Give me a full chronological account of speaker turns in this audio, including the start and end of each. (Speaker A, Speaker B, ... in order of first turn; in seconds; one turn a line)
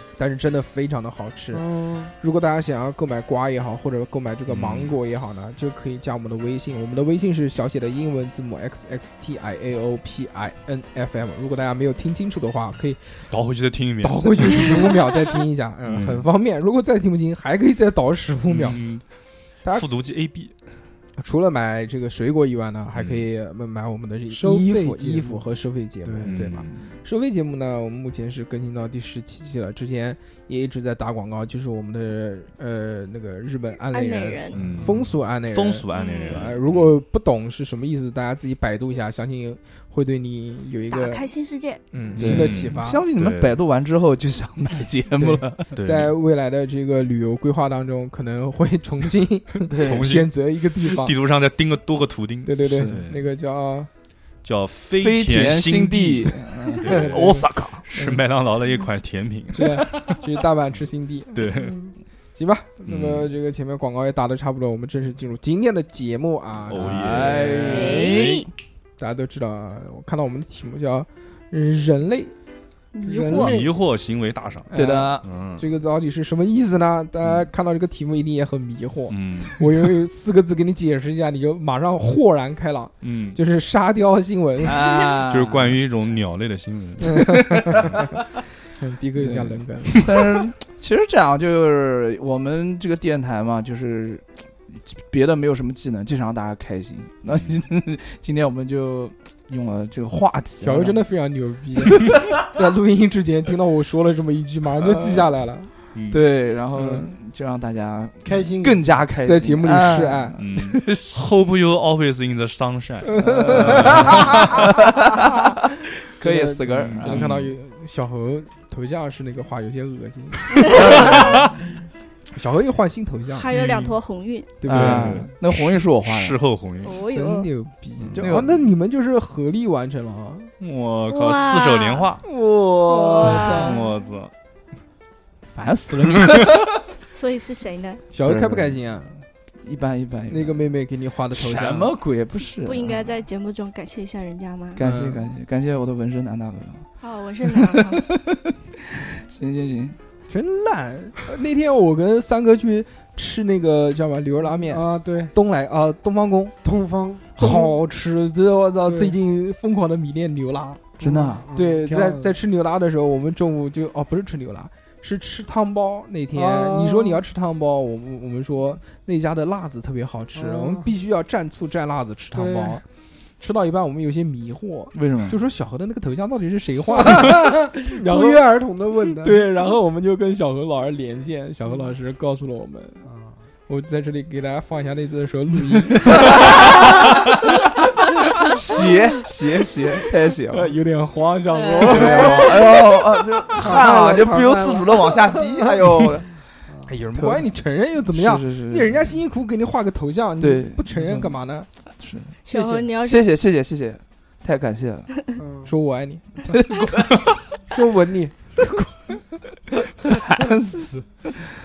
Speaker A: 0.2-1.6
Speaker B: 1.5-2.1
Speaker A: 2.2-13.3
Speaker C: 4.5-4.9
Speaker C: 13.3-15.0
Speaker A: 14.0-18.8
Speaker C: 15.8-16.2
Speaker C: 18.5-19.0
Speaker C: 19.7-20.5
Speaker A: 21.2-41.3
Speaker C: 22.9-23.2
Speaker B: 24.3-25.4
Speaker B: 26.0-26.3
Speaker C: 26.2-26.7
Speaker D: 33.9-34.7
Speaker C: 34.5-37.0
Speaker D: 35.9-36.5
Speaker D: 40.9-41.8
Speaker A: 41.9-43.1
Speaker E: 42.1-45.8
Speaker C: 42.1-43.6
Speaker A: 45.2-51.1
Speaker C: 45.7-46.1
Speaker E: 49.6-50.1
Speaker C: 49.7-50.3
Speaker C: 50.8-53.2
Speaker A: 52.4-53.9
Speaker E: 52.6-53.0
Speaker C: 54.4-60.2
Speaker E: 55.0-57.8
Speaker A: 56.8-58.2
Speaker A: 59.5-61.5
Speaker C: 61.3-61.9
Speaker B: 61.6-61.9
Speaker A: 62.3-67.6
Speaker C: 62.9-63.3
Speaker C: 66.7-67.7
Speaker E: 66.7-68.5
Speaker D: 67.7-68.5
Speaker A: 69.0-72.3
Speaker D: 72.9-73.6
Speaker B: 73.0-73.7
Speaker C: 73.3-74.7
Speaker A: 74.7-85.0
Speaker E: 74.7-75.2
Speaker C: 75.2-75.7
Speaker C: 79.1-79.6
Speaker C: 83.0-83.4
Speaker E: 84.6-85.8
Speaker C: 85.3-88.2
Speaker A: 87.0-87.9
Speaker A: 88.8-90.1
Speaker E: 89.2-101.0
Speaker C: 97.3-97.6
Speaker A: 100.6-105.7
Speaker E: 104.8-105.3
Speaker C: 105.9-106.2
Speaker E: 106.1-111.0
Speaker A: 106.8-107.1
Speaker B: 108.2-109.0
Speaker A: 109.2-110.3
Speaker C: 110.4-114.7
Speaker A: 113.0-114.4
Speaker E: 113.2-117.3
Speaker A: 116.2-121.4
Speaker C: 116.8-117.5
Speaker E: 120.7-121.5
Speaker C: 120.7-121.6
Speaker A: 122.3-123.5
Speaker D: 123.3-124.6
Speaker C: 123.5-124.0
Speaker A: 124.6-125.3
Speaker E: 124.6-126.4
Speaker C: 124.7-127.0
Speaker D: 126.8-127.5
Speaker A: 127.1-130.5
Speaker C: 128.0-128.3
Speaker E: 128.2-128.6
Speaker C: 130.6-132.2
Speaker D: 131.1-132.1
Speaker A: 132.2-133.8
Speaker E: 132.9-133.4
Speaker D: 133.0-134.0
Speaker C: 133.6-134.3
Speaker E: 135.5-136.7
Speaker D: 137.1-138.0
Speaker A: 138.1-139.1
Speaker E: 138.2-138.8
Speaker E: 139.6-140.7
Speaker A: 140.3-141.9
Speaker E: 141.3-143.0
Speaker D: 142.6-144.8
Speaker E: 144.8-146.9
Speaker A: 144.8-145.3
Speaker D: 147.0-148.1
Speaker E: 147.4-150.0
Speaker A: 150.3-156.5
Speaker B: 154.6-155.3
Speaker B: 156.6-157.7
Speaker A: 157.4-160.9
Speaker B: 158.8-159.1
Speaker E: 161.0-161.4
Speaker B: 161.0-162.3
Speaker A: 161.5-172.8
Speaker B: 166.3-167.2
Speaker B: 170.3-170.9
Speaker B: 172.3-172.8
Speaker A: 173.4-178.5
Speaker E: 174.9-175.4
Speaker B: 176.9-179.4
Speaker A: 179.2-183.1
Speaker B: 183.1-183.3
Speaker A: 183.7-186.4
Speaker E: 185.9-187.6
Speaker E: 188.4-190.7
Speaker A: 190.5-192.6
Speaker D: 191.5-192.5
Speaker E: 191.8-196.2
Speaker B: 193.5-195.9
Speaker A: 196.8-201.7
Speaker E: 197.1-197.5
Speaker E: 198.0-199.1
Speaker E: 200.4-201.4
Speaker E: 202.0-202.3
Speaker D: 202.4-203.3
Speaker A: 202.5-202.9
Speaker E: 203.0-205.1
Speaker B: 205.4-205.7
Speaker A: 205.7-206.6
Speaker E: 206.4-207.4
Speaker B: 207.7-208.3
Speaker E: 208.6-209.2
Speaker E: 209.7-211.5